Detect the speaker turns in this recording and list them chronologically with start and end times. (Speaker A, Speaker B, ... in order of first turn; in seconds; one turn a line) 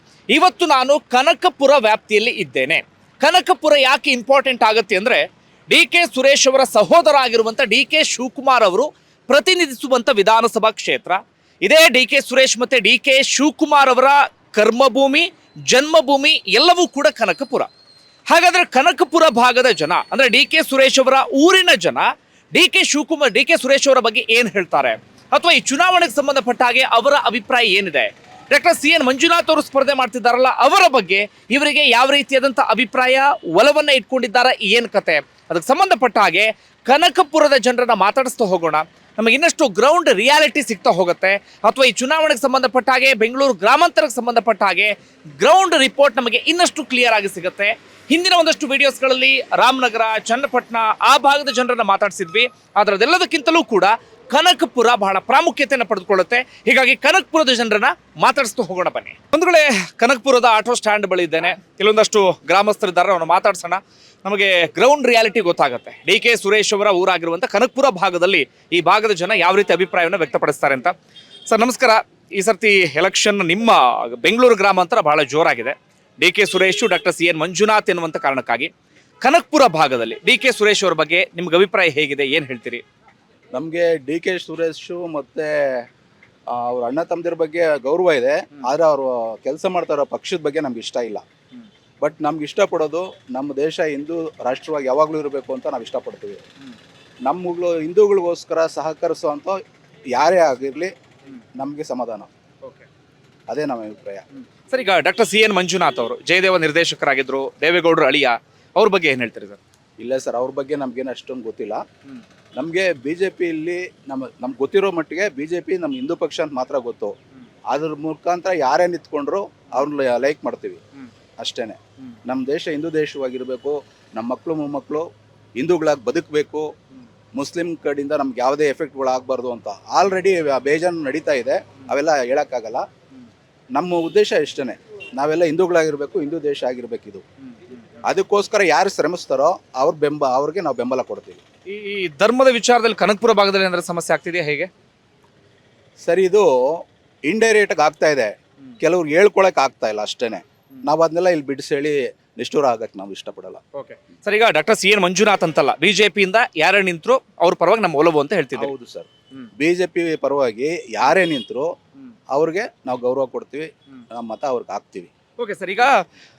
Speaker A: 0.3-17.7
Speaker A: 18.3-70.9
Speaker A: 71.5-78.7
Speaker A: 79.2-82.8
Speaker B: 83.5-85.5
Speaker B: 86.5-91.2
Speaker B: 92.0-96.4
Speaker B: 97.2-99.6
Speaker B: 100.1-100.9
Speaker B: 101.5-102.3
Speaker B: 103.5-104.2
Speaker A: 104.4-109.6
Speaker B: 110.0-111.8
Speaker B: 112.5-117.1
Speaker B: 117.7-120.8
Speaker B: 121.4-126.7
Speaker B: 127.3-132.8
Speaker B: 133.7-137.2
Speaker B: 138.1-141.4
Speaker A: 141.7-144.7
Speaker B: 146.0-146.5
Speaker B: 147.2-153.6
Speaker A: 153.7-158.7
Speaker B: 158.6-161.7
Speaker B: 162.3-165.1
Speaker A: 165.4-165.9